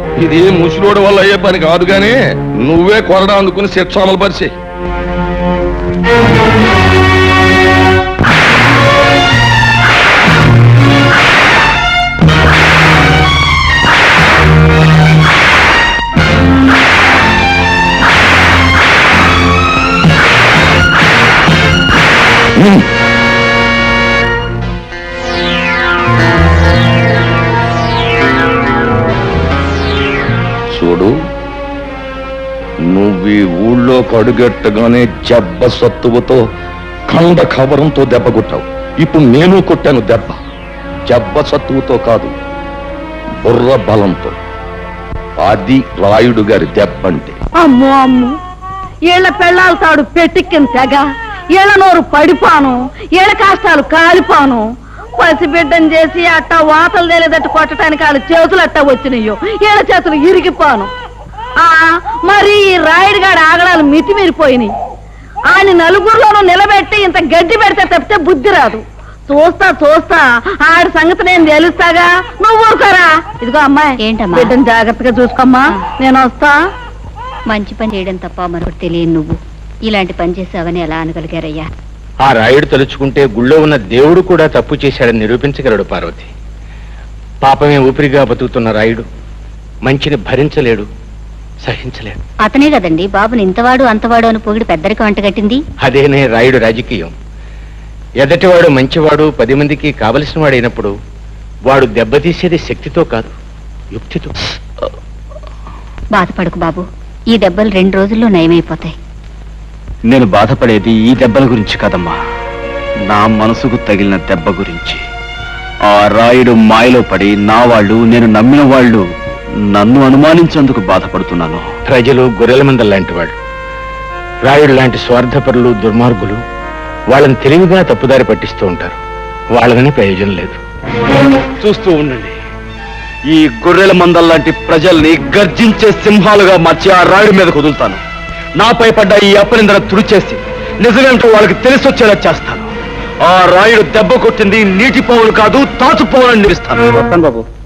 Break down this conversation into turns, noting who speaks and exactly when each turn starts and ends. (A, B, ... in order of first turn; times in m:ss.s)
0:00.2-0:04.5 A
0:22.6-0:22.8 A
0:30.7-0:31.1 A
0:32.9-0:36.4 A
0:37.1-0:40.4 A
0:41.1-0:42.3 A
0:43.4-0:44.4 A
0:45.4-0:47.4 A
0:47.6-0:48.3 B
0:49.1-0:54.6 B
0:55.2-1:00.9 B
1:01.6-1:04.7 B
1:05.5-1:16.6 B
1:14.0-1:14.5 C
1:17.5-1:21.7 C
1:22.2-1:26.3 D
1:27.4-1:29.0 D
1:29.9-1:30.9 D
1:31.7-1:32.2 D
1:32.4-1:35.6 C
1:35.8-1:37.1 D
1:38.2-1:40.9 D
1:41.7-1:43.3 D
1:43.9-1:44.3 D
1:46.2-1:48.9 C
1:50.1-1:52.2 E
1:53.1-1:55.0 E
1:55.9-1:59.0 E
1:59.7-2:01.7 E
2:01.9-2:03.4 D
2:04.4-2:06.4 D
2:07.1-2:09.0 D
2:09.5-2:10.6 D
2:11.6-2:12.4 E
2:13.3-2:18.0 E
2:18.6-2:22.7 E
2:23.2-2:27.0 E